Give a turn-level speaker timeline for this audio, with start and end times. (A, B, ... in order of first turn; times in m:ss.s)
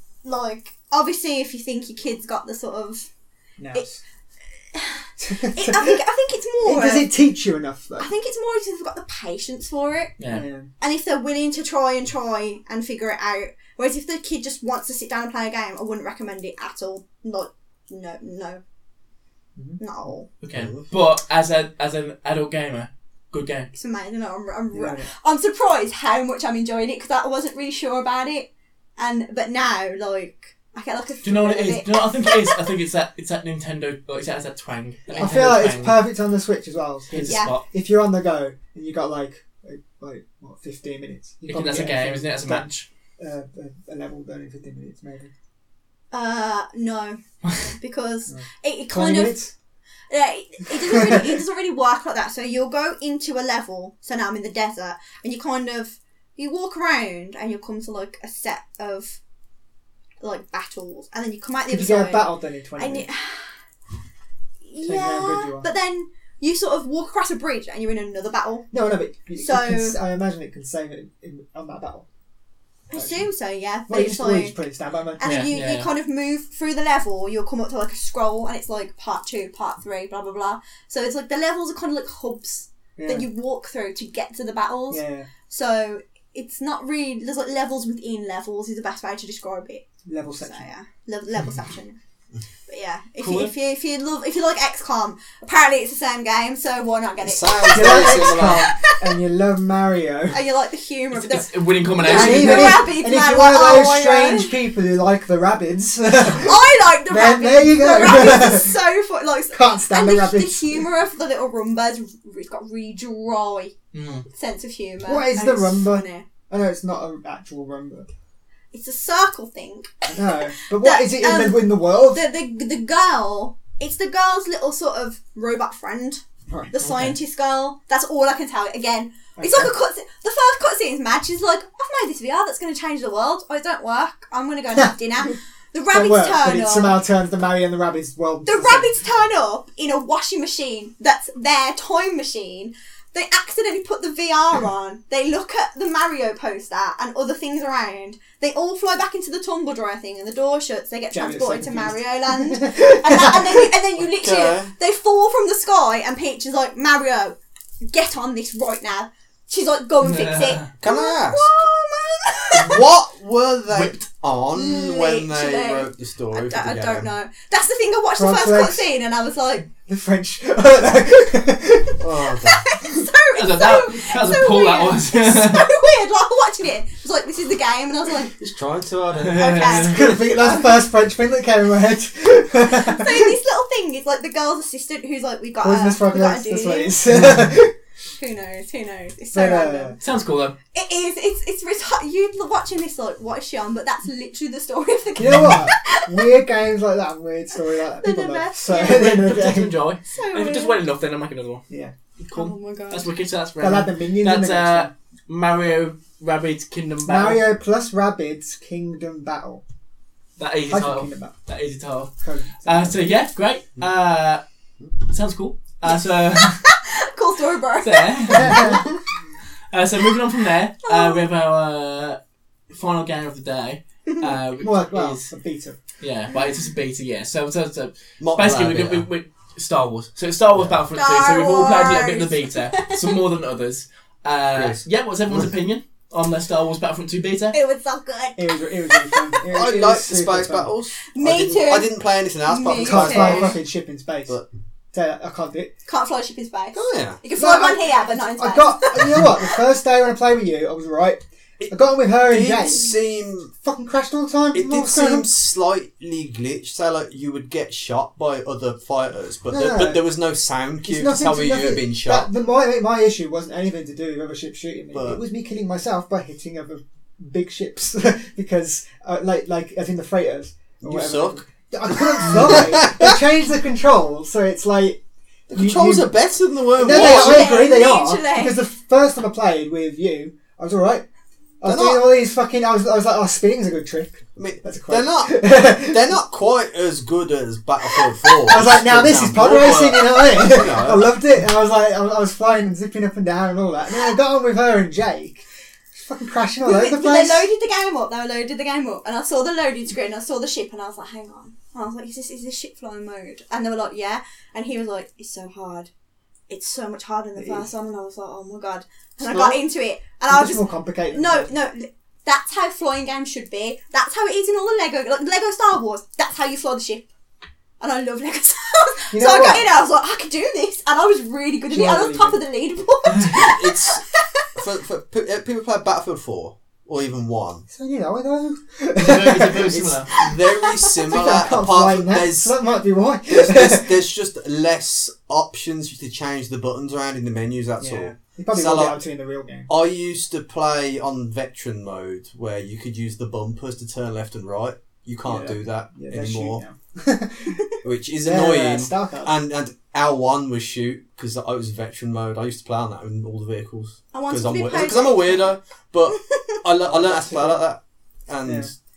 0:00.2-0:03.1 A
0:03.6-0:04.0 B
0:04.7-0:07.1 A
0:05.2-0:06.0 B
0:06.6-0:08.1 B
0:08.0-0:10.2 A
0:10.2-0:10.4 C
0:10.3-0:10.7 B
0:10.8-0:18.6 A
0:19.6-0:19.8 B
0:19.8-0:20.3 A
0:20.4-0:23.7 C
0:20.5-0:20.9 D
0:23.7-0:32.6 A
0:24.7-0:25.1 B
0:31.2-0:36.0 C
0:35.2-0:42.6 B
0:37.1-0:37.6 C
0:37.2-0:37.6 A
0:41.5-0:42.9 C
0:43.2-0:45.3 B
0:46.1-0:47.2 A
0:47.8-0:49.4 A
0:48.3-0:49.5 B
0:50.1-0:59.2 A
0:50.8-0:51.4 B
1:00.2-1:03.5 A
1:01.7-1:03.0 B
1:04.6-1:08.7 A
1:04.8-1:05.7 B
1:08.7-1:12.0 B
1:09.3-1:10.0 A
1:12.9-1:14.6 A
1:12.9-1:13.2 B
1:13.9-1:15.5 B
1:15.1-1:32.0 A
1:15.2-1:15.9 C
1:23.0-1:23.3 B
1:24.9-1:25.3 B
1:30.0-1:30.6 B
1:32.7-1:39.0 A
1:33.2-1:33.5 C
1:37.2-1:38.7 D
1:37.7-1:40.4 B
1:40.3-1:44.5 A
1:41.1-1:42.8 C
1:42.0-1:46.6 B
1:46.2-1:53.7 A
1:47.1-1:48.7 B
1:49.5-1:50.9 B
1:53.9-1:54.2 C
1:54.3-1:56.2 A
1:55.0-1:58.1 B
1:58.7-2:00.2 A
2:00.1-2:02.2 B
2:00.7-2:06.2 A
2:06.5-2:07.1 B
2:06.7-2:17.0 A
2:09.4-2:09.7 B
2:15.9-2:18.9 B
2:18.4-2:37.4 A
2:31.1-2:33.7 B
2:34.0-2:34.7 D
2:37.9-2:42.8 A
2:40.0-2:40.7 C
2:40.8-2:41.5 D
2:42.5-2:47.1 D
2:43.7-2:44.0 C
2:44.5-2:49.7 A
2:48.2-2:48.9 B
2:49.8-2:52.0 B
2:52.0-2:52.7 D
2:52.4-2:58.3 A
2:53.3-2:55.7 C
2:58.4-2:59.8 D
2:59.2-3:00.0 C
2:59.3-3:00.6 A
2:59.8-3:03.3 B
3:02.6-3:07.0 A
3:05.6-3:07.7 B
3:08.2-3:10.0 A
3:09.3-3:10.0 B
3:10.0-3:10.6 C
3:10.7-3:16.3 A
3:15.2-3:19.7 B
3:18.0-3:19.2 A
3:18.7-3:21.6 C
3:20.1-3:20.8 A
3:22.2-3:27.5 C
3:22.3-3:23.1 A
3:23.6-3:24.9 B
3:27.0-3:29.6 B
3:30.4-3:32.1 C
3:30.7-3:31.3 B
3:32.2-3:33.0 B
3:32.6-3:34.4 C
3:35.0-3:36.6 C
3:35.9-3:38.9 A
3:37.8-3:38.8 C
3:38.3-3:38.8 B
3:39.7-3:42.2 C
3:40.8-3:41.3 A
3:42.7-3:45.3 C
3:44.6-3:45.8 B
3:46.0-3:57.6 C
3:48.2-3:49.0 D
3:50.9-3:53.0 A
3:54.5-3:55.5 D
3:57.5-3:59.3 A
3:58.4-4:00.7 B
3:59.5-4:03.6 D
4:01.1-4:03.6 A
4:02.7-4:04.4 B
4:04.9-4:05.7 B
4:05.9-4:09.4 A
4:06.7-4:07.2 D
4:07.4-4:12.9 B
4:12.2-4:13.5 D
4:13.5-4:15.3 B
4:14.5-4:22.3 D
4:19.5-4:20.0 B
4:20.8-4:36.1 B
4:24.9-4:25.2 D
4:30.8-4:33.2 D
4:35.5-4:37.6 D
4:36.7-4:41.0 B
4:36.8-4:38.6 A
4:41.6-4:46.2 B
4:41.6-4:42.1 D
4:44.4-4:51.1 D
4:48.4-4:57.5 B
4:56.6-5:05.9 A
5:06.5-5:17.1 A
5:07.4-5:07.7 B
5:10.3-5:11.5 B
5:17.8-5:24.2 A
5:19.1-5:19.7 B
5:21.7-5:22.4 B
5:23.2-5:24.0 D
5:24.5-5:27.6 D
5:27.7-5:29.9 B
5:29.0-5:30.1 C
5:29.7-5:32.5 D
5:30.2-5:31.0 A
5:31.1-5:33.9 B
5:33.3-5:39.0 D
5:37.8-5:39.7 B
5:39.7-5:46.6 D
5:45.2-5:47.6 B
5:47.8-5:58.7 D
5:48.2-5:49.3 B
5:54.1-5:55.5 A
5:56.1-5:56.4 A
5:56.8-5:57.6 B
5:58.4-5:58.7 B